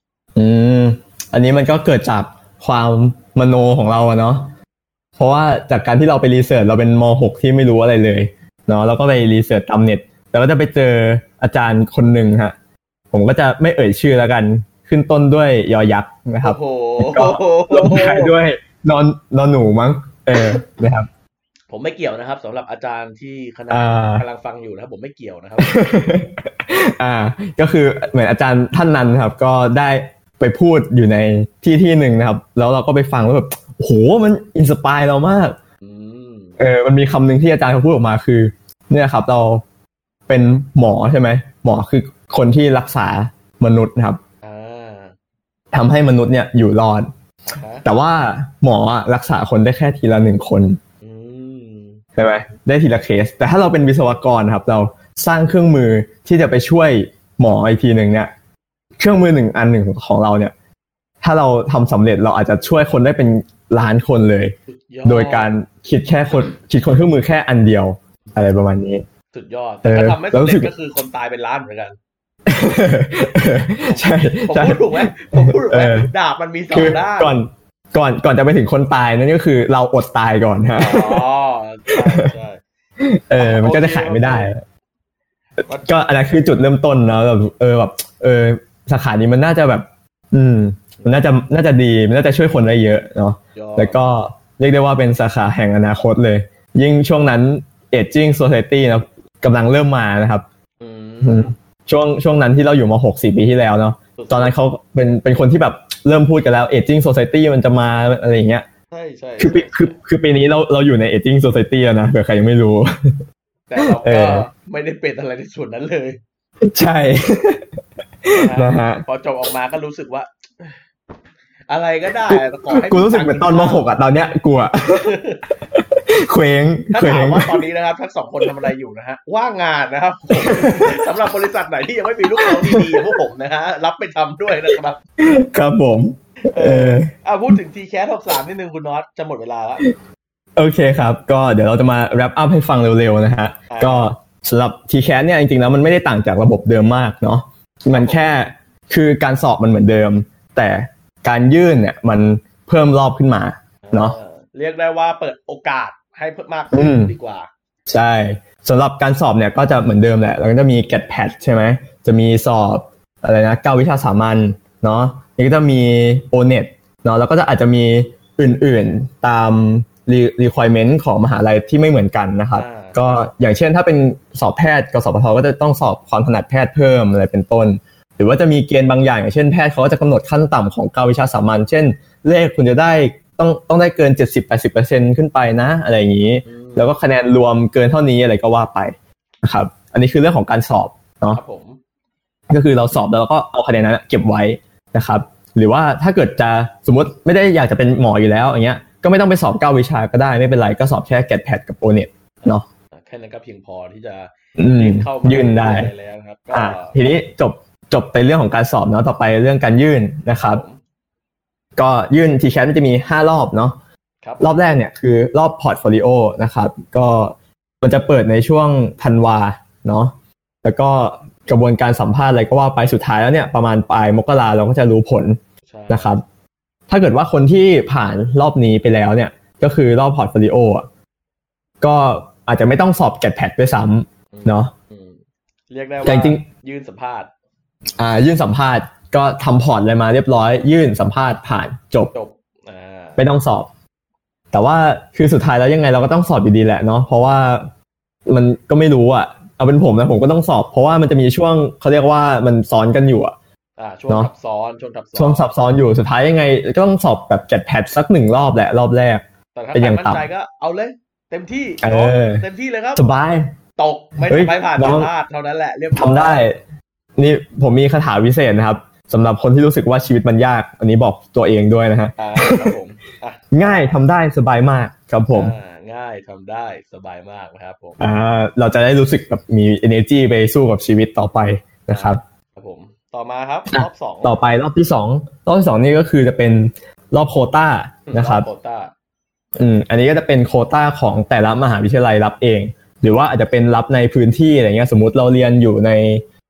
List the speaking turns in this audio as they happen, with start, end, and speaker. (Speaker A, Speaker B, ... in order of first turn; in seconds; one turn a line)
Speaker A: 0.4-4.5
Speaker A: 5.2-12.5
Speaker A: 13.1-21.1
Speaker B: 16.4-18.4
Speaker B: 21.7-25.8
Speaker A: 23.7-24.2
Speaker A: 25.6-35.6
Speaker B: 35.8-36.5
Speaker A: 36.6-39.6
Speaker A: 40.3-44.2
Speaker B: 44.4-45.1
Speaker A: 45.7-47.1
Speaker B: 47.5-47.9
Speaker A: 47.8-50.8
Speaker B: 51.0-52.0
Speaker A: 52.2-58.3
Speaker A: 59.0-60.5
Speaker A: 61.2-69.0
Speaker B: 64.7-65.5
Speaker B: 69.3-72.0
Speaker A: 69.8-70.7
Speaker A: 72.5-76.1
Speaker B: 73.8-77.3
Speaker A: 76.7-81.2
Speaker B: 80.8-82.6
Speaker A: 83.0-84.6
Speaker B: 83.4-84.5
Speaker A: 85.8-100.5
Speaker B: 93.6-94.0
Speaker B: 100.8-101.5
Speaker A: 101.2-108.7
Speaker B: 104.2-104.5
Speaker B: 108.9-110.0
Speaker A: 109.4-113.2
Speaker B: 113.7-116.2
Speaker A: 113.8-114.5
Speaker A: 116.6-117.7
Speaker A: 118.2-119.0
Speaker B: 118.3-120.8
Speaker B: 121.7-123.9
Speaker A: 122.3-125.2
Speaker B: 125.0-125.5
Speaker A: 125.7-127.6
Speaker B: 126.9-135.0
Speaker A: 130.3-131.0
Speaker A: 132.4-133.0
Speaker A: 135.2-137.1
Speaker B: 136.5-139.9
Speaker A: 140.6-154.2
Speaker B: 143.7-144.1
Speaker B: 147.9-148.3
Speaker B: 153.8-157.5
Speaker A: 156.7-157.1
Speaker A: 157.9-191.4
Speaker B: 172.5-173.2
Speaker B: 186.5-187.0
Speaker B: 191.3-191.8
Speaker A: 192.5-202.6
Speaker B: 202.4-207.0
Speaker A: 204.6-205.9
Speaker A: 206.5-210.6
Speaker B: 210.3-210.8
Speaker A: 211.8-213.8
Speaker B: 214.2-214.5
Speaker A: 214.4-225.4
Speaker B: 225.7-226.1
Speaker A: 225.9-226.2
Speaker A: 226.9-230.9
Speaker A: 231.8-234.7
Speaker B: 234.3-235.2
Speaker B: 235.7-237.3
Speaker A: 236.0-236.4
Speaker A: 238.0-242.1
Speaker B: 242.1-243.2
Speaker A: 243.2-243.7
Speaker A: 244.5-247.7
Speaker A: 248.3-253.3
Speaker B: 253.8-255.5
Speaker A: 255.2-259.2
Speaker B: 259.6-263.1
Speaker A: 259.7-260.2
Speaker A: 261.8-262.4
Speaker A: 263.0-263.5
Speaker B: 263.8-266.4
Speaker A: 264.2-265.1
Speaker A: 266.0-266.6
Speaker A: 267.2-272.8
Speaker B: 272.2-273.9
Speaker A: 273.5-275.6
Speaker B: 275.3-278.0
Speaker A: 278.0-282.2
Speaker B: 281.9-284.4
Speaker A: 283.7-288.5
Speaker B: 288.1-288.9
Speaker A: 289.6-296.2